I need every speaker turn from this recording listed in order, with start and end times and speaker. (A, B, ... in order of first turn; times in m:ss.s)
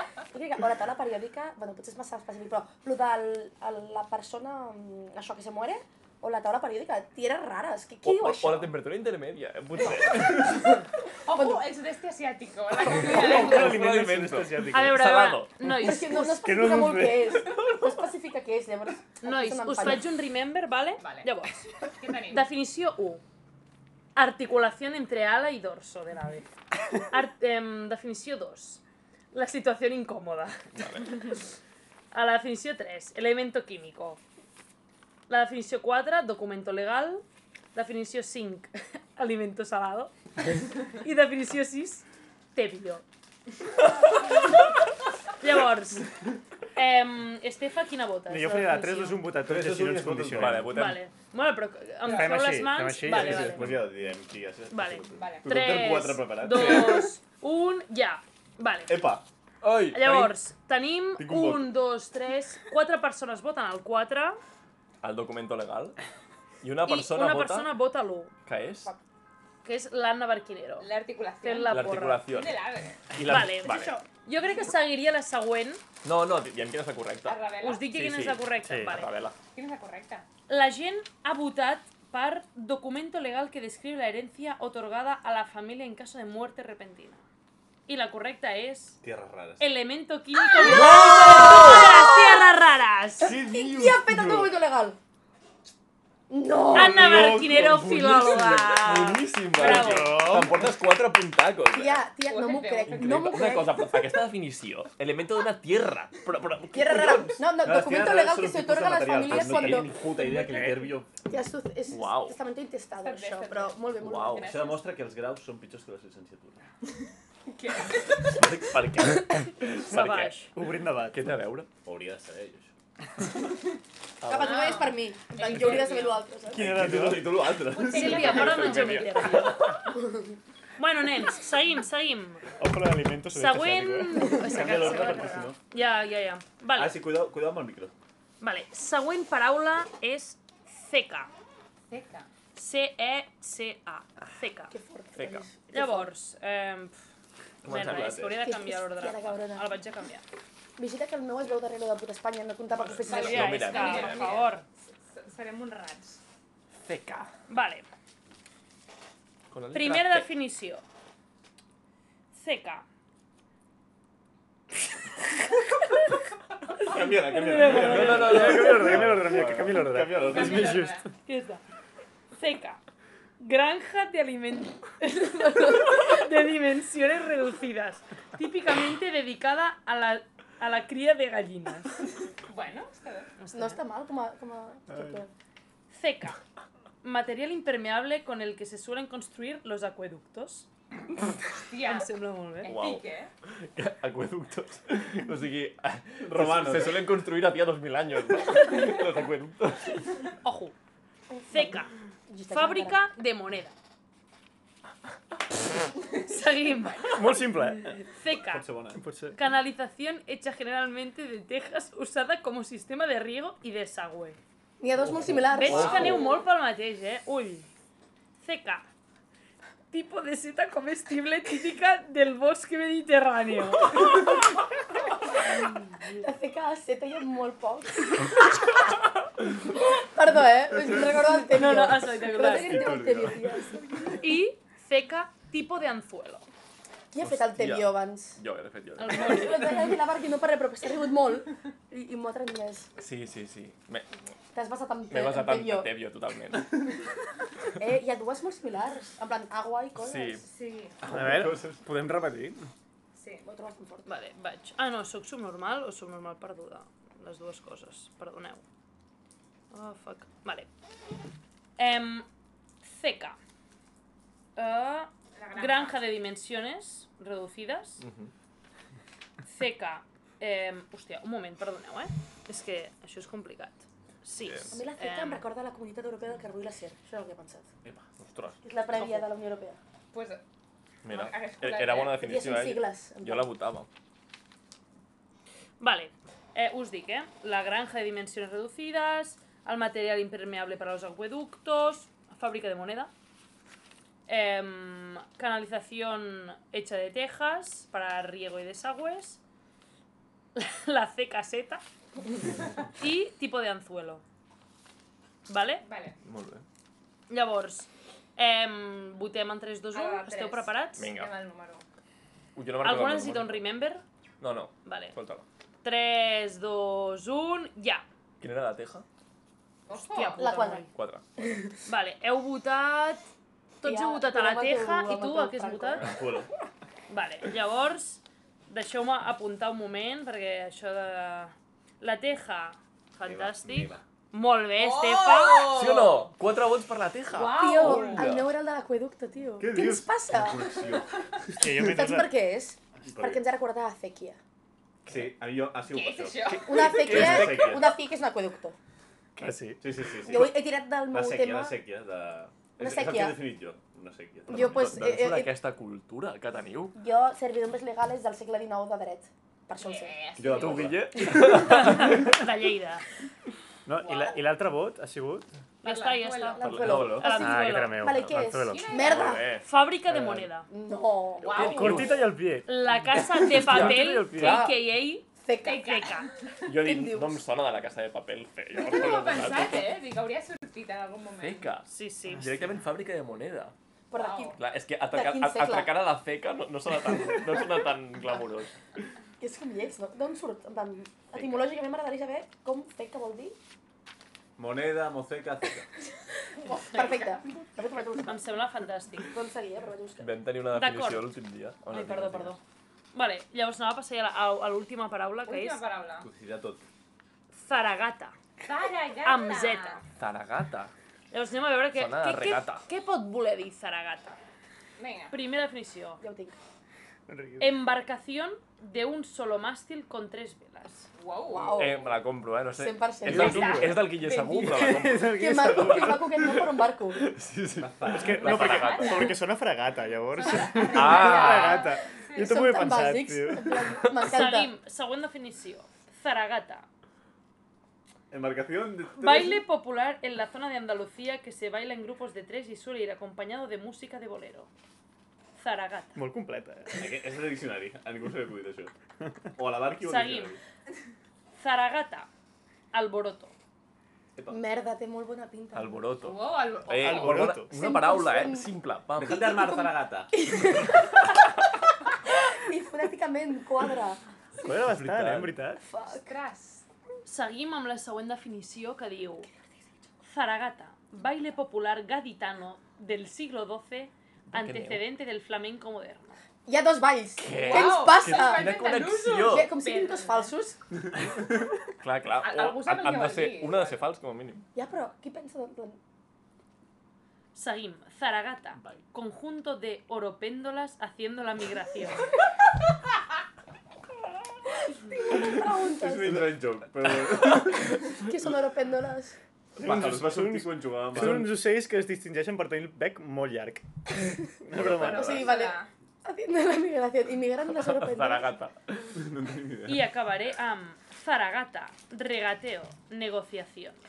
0:00.3-0:08.7 A
0:08.0-0:10.8 B
0:11.2-0:13.8 C
0:11.3-0:11.6 A
0:12.8-0:15.5 B
0:12.9-0:15.0 D
0:14.7-0:16.4 E
0:15.6-0:20.1 A
0:15.9-0:17.7 D
0:19.2-0:23.2 E
0:21.0-0:22.5 C
0:24.2-0:28.8 E
0:29.3-0:31.4 E
0:30.8-0:31.2 B
0:32.1-0:34.2 E
0:35.3-0:43.0 E
0:45.4-0:49.3 E
0:48.3-0:50.7 D
0:49.4-0:50.7 F
0:50.3-0:51.0 B
0:50.7-0:53.8 E
0:52.0-0:52.6 C
0:52.0-0:53.9 D
0:53.0-0:57.1 F
0:54.7-0:59.0 E
0:55.1-0:55.5 C
0:58.9-0:59.2 F
0:59.6-1:00.4 B
0:59.9-1:04.4 E
1:01.2-1:01.7 F
1:05.0-1:06.0 B
1:06.6-1:07.7 B
1:06.8-1:08.3 E
1:08.4-1:08.9 B
1:09.6-1:12.3 E
1:10.8-1:13.2 C
1:11.7-1:13.9 B
1:13.2-1:15.8 E
1:13.6-1:14.0 A
1:16.0-1:19.4 B
1:17.2-1:17.9 C
1:17.6-1:19.2 E
1:18.6-1:19.0 D
1:19.5-1:20.3 C
1:20.5-1:27.2 E
1:27.9-1:29.0 E
1:29.0-1:29.6 F
1:29.6-1:33.3 E
1:30.6-1:32.5 A
1:30.7-1:31.9 B
1:33.2-1:34.5 B
1:33.2-1:35.0 A
1:36.3-1:37.1 A
1:36.7-1:40.2 E
1:36.7-1:38.6 F
1:37.0-1:42.0 B
1:39.6-1:40.7 D
1:40.3-1:40.6 F
1:41.7-1:44.2 A
1:42.2-1:43.0 C
1:42.8-1:47.4 B
1:46.7-1:50.6 A
1:47.6-1:51.2 F
1:49.3-1:49.8 B
1:50.4-1:50.9 D
1:51.2-1:54.4 A
1:51.9-1:52.4 B
1:53.0-1:54.9 C
1:54.0-1:54.5 B
1:54.4-1:56.7 F
1:57.4-1:58.7 C
1:58.1-2:00.5 B
1:59.8-2:00.5 E
2:00.5-2:01.3 D
2:01.1-2:01.7 B
2:01.8-2:02.7 F
2:04.2-2:04.9 B
2:04.2-2:06.7 A
2:04.4-2:06.2 C
2:06.5-2:07.6 D
2:06.5-2:09.0 F
2:07.6-2:09.2 C
2:07.8-2:09.8 E
2:08.2-2:09.6 B
2:10.8-2:12.5 E
2:12.6-2:15.0 D
2:13.3-2:17.0 E
2:14.2-2:15.6 F
2:16.7-2:17.9 F
2:18.4-2:21.3 E
2:21.9-2:22.3 C
2:22.5-2:24.7 E
2:24.7-2:26.1 A
2:25.2-2:25.5 B
2:25.7-2:27.0 E
2:27.6-2:28.3 B
2:27.6-2:30.2 E
2:27.6-2:28.3 F
2:28.4-2:29.7 A
2:30.8-2:33.9 A
2:32.9-2:34.3 B
2:33.0-2:36.2 C
2:33.0-2:34.6 E
2:36.8-2:37.3 B
2:37.5-2:37.8 E
2:39.5-2:40.3 B
2:39.7-2:40.8 E
2:42.3-2:42.8 E
2:46.8-2:50.8 F
2:46.8-2:48.7 E
2:47.7-2:51.0 D
2:47.7-2:49.8 B
2:50.2-2:51.1 C
2:51.2-2:51.6 E
2:52.3-2:52.8 E
2:53.4-3:02.0 E
2:55.2-2:56.1 A
3:02.4-3:03.3 C
3:03.4-3:03.8 E
3:03.5-3:05.3 A
3:05.9-3:06.4 E
3:07.0-3:10.7 E
3:11.5-3:13.3 C
3:11.8-3:12.7 E
3:12.6-3:13.0 B
3:13.6-3:20.2 B
3:16.2-3:17.1 F
3:20.4-3:20.7 E
3:21.3-3:23.0 A
3:21.5-3:21.9 E
3:22.5-3:23.7 E
3:26.1-3:28.6 E
3:27.1-3:28.0 D
3:28.4-3:29.0 F
3:28.9-3:29.4 D
3:29.3-3:34.4 E
3:34.8-3:36.2 A
3:35.0-3:36.0 F
3:35.5-3:37.7 E
3:38.4-3:38.9 E
3:39.9-3:44.2 E
3:45.9-3:46.2 E
3:46.2-3:48.8 A
3:49.5-3:54.1 A
3:51.4-3:52.9 E
3:52.4-3:53.5 F
3:54.2-3:56.4 E
3:57.1-3:58.4 A
3:57.2-3:59.5 B
3:59.0-3:59.9 E
3:59.1-4:02.9 A
4:03.0-4:04.2 B
4:04.5-4:05.9 A
4:05.1-4:07.0 B
4:07.8-4:10.4 A
4:10.0-4:10.4 B
4:10.4-4:11.0 C
4:11.0-4:11.8 F
4:11.0-4:12.7 D
4:13.1-4:13.5 C
4:13.4-4:14.1 A
4:14.0-4:18.6 E
4:19.7-4:20.7 E
4:21.8-4:22.3 E
4:22.8-4:23.4 E
4:24.6-4:28.0 E
4:25.3-4:26.1 C
4:28.0-4:28.3 B
4:29.4-4:35.4 E
4:34.4-4:34.8 B
4:34.7-4:37.7 A
4:38.2-4:38.6 B
4:38.6-4:39.8 A
4:39.0-4:39.2 E
4:40.1-4:40.4 C
4:41.0-4:43.9 B
4:41.0-4:42.2 C
4:42.2-4:43.5 A
4:45.8-4:53.1 E
4:54.3-4:59.4 E
5:00.5-5:01.8 E
5:03.0-5:04.2 E
5:05.4-5:05.8 E
5:05.8-5:06.2 C
5:06.2-5:06.6 B
5:07.3-5:11.1 E
5:09.9-5:11.8 C
5:11.0-5:11.3 B
5:12.5-5:13.6 B
5:12.8-5:14.0 E
5:14.4-5:15.4 B
5:14.8-5:15.1 E
5:15.8-5:18.0 E
5:18.4-5:19.0 B
5:19.9-5:20.6 C
5:19.9-5:20.9 E
5:20.4-5:20.8 A
5:20.9-5:21.4 B
5:21.8-5:23.2 E
5:23.8-5:26.1 E
5:23.8-5:26.2 A
5:26.0-5:26.5 F
5:27.1-5:35.7 E
5:33.2-5:34.0 F
5:34.8-5:36.3 C
5:35.7-5:38.4 B
5:37.3-5:38.4 C
5:37.5-5:41.0 A
5:39.6-5:41.1 F
5:41.5-5:42.3 D
5:41.6-5:44.4 A
5:43.0-5:43.4 F
5:45.0-5:45.3 B
5:45.1-5:47.9 F
5:45.9-5:47.2 C
5:46.6-5:48.8 A
5:46.8-5:47.8 B
5:49.4-5:50.2 D
5:49.8-5:54.8 F
5:50.3-5:51.8 A
5:52.8-5:53.4 A
5:54.5-5:55.5 A
5:54.5-5:57.0 B
5:56.9-6:00.2 A
5:59.8-6:01.0 C
6:00.4-6:01.2 F
6:00.5-6:02.4 B
6:01.5-6:03.0 E
6:03.8-6:05.5 D
6:04.0-6:04.4 C
6:05.8-6:06.8 C
6:05.8-6:08.2 E
6:06.6-6:09.4 A
6:06.6-6:07.2 B
6:06.8-6:07.2 F
6:07.4-6:08.9 D
6:08.6-6:09.4 C
6:09.0-6:09.6 B
6:09.5-6:10.7 E
6:10.1-6:10.5 D
6:10.7-6:11.8 A
6:11.4-6:12.3 B
6:11.4-6:12.3 C
6:11.5-6:14.7 D
6:12.6-6:16.3 E
6:13.4-6:14.6 B
6:14.4-6:14.7 A
6:15.4-6:16.0 A
6:15.6-6:16.6 C
6:16.6-6:19.9 B
6:16.7-6:17.4 A
6:18.7-6:21.7 C
6:21.4-6:23.7 B
6:21.9-6:22.5 E
6:24.1-6:24.6 A
6:24.1-6:24.6 C
6:24.6-6:28.7 B
6:25.1-6:26.0 A
6:29.4-6:33.6 A
6:31.3-6:31.6 B
6:34.6-6:35.9 F
6:36.4-6:38.4 A
6:38.3-6:39.3 E
6:39.2-6:40.3 A
6:40.2-6:42.6 B
6:40.7-6:41.3 E
6:41.9-6:42.6 E
6:43.1-6:45.8 E
6:45.4-6:46.3 C
6:46.2-6:46.8 F
6:47.5-6:48.4 E
6:48.6-6:50.0 C
6:49.2-6:50.0 E
6:50.2-6:50.9 B
6:51.3-6:54.4 E
6:51.9-6:52.8 B
6:55.0-6:55.4 C
6:55.3-6:56.2 E
6:56.2-6:56.6 A
6:57.3-6:57.7 D
6:57.6-7:01.1 E
7:01.1-7:01.9 C
7:01.5-7:02.2 A
7:01.7-7:09.2 B
7:02.7-7:04.0 A
7:03.3-7:05.1 C
7:04.6-7:06.3 D
7:05.2-7:07.3 A
7:07.8-7:08.7 F
7:08.1-7:13.8 D
7:08.6-7:09.3 C
7:10.3-7:12.7 C
7:10.8-7:11.9 B
7:11.0-7:11.8 A
7:12.3-7:14.7 A
7:14.1-7:16.9 E
7:18.3-7:19.6 F
7:19.2-7:24.7 E
7:25.6-7:26.2 E
7:26.1-7:27.0 D
7:26.9-7:28.9 F
7:29.6-7:30.6 F
7:30.0-7:30.6 E
7:31.6-7:32.3 E
7:32.9-7:33.5 E
7:34.4-7:34.6 F
7:34.5-7:36.0 A
7:35.7-7:39.5 B
7:36.2-7:37.4 C
7:37.0-7:37.7 D
7:37.6-7:38.7 A
7:39.2-7:40.3 F
7:39.2-7:41.3 A
7:42.3-7:44.2 A
7:44.6-7:45.8 D
7:44.7-7:45.6 F
7:45.8-7:46.3 A
7:46.1-7:46.8 C
7:47.2-7:49.5 E
7:50.3-7:56.4 E
7:54.5-7:55.0 B
7:56.6-7:58.8 A
7:57.4-7:59.7 B
7:57.5-8:00.5 C
7:59.4-8:00.8 A
8:02.0-8:04.6 B
8:02.4-8:04.0 C
8:04.7-8:06.0 A
8:07.5-8:12.3 E
8:14.8-8:16.4 A
8:16.0-8:18.1 F
8:18.1-8:19.4 A
8:19.8-8:25.4 D
8:19.8-8:21.6 F
8:24.7-8:25.2 B
8:24.8-8:25.9 C
8:25.1-8:28.6 A
8:27.7-8:29.2 B
8:29.1-8:30.1 F
8:29.8-8:34.0 E